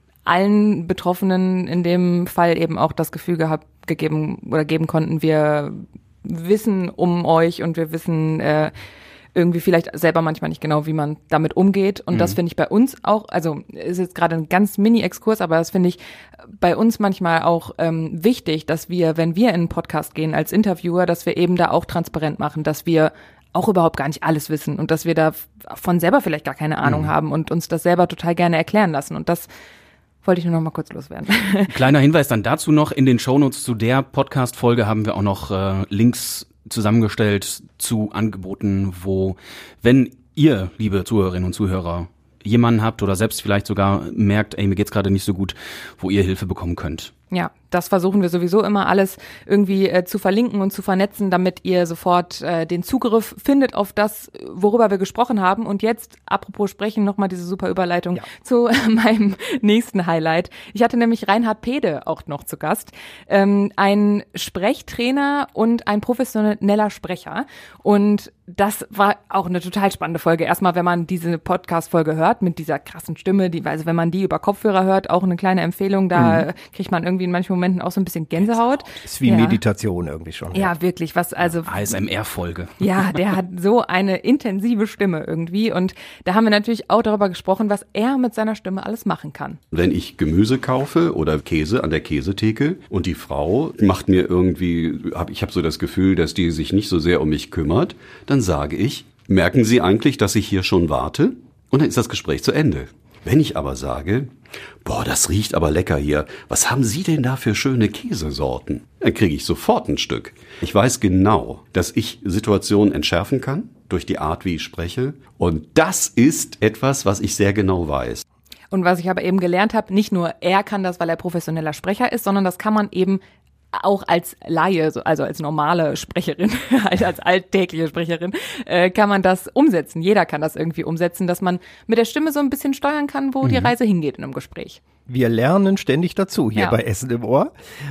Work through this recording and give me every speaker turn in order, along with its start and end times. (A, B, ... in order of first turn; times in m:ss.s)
0:00.2-0:08.7 A
0:09.3-0:16.0 A
0:16.6-0:29.5 A
0:26.8-0:27.1 B
0:30.2-0:31.7 A
0:31.7-0:47.1 B
0:47.3-1:19.6 A
1:16.1-1:16.4 C
1:18.5-1:18.8 B
1:19.0-1:20.7 C
1:20.5-1:22.0 A
1:21.6-1:22.8 B
1:22.8-1:29.6 A
1:29.7-1:58.2 D
1:58.7-2:03.2 A
2:03.7-2:14.8 A
2:13.4-2:13.7 B
2:15.1-2:17.5 C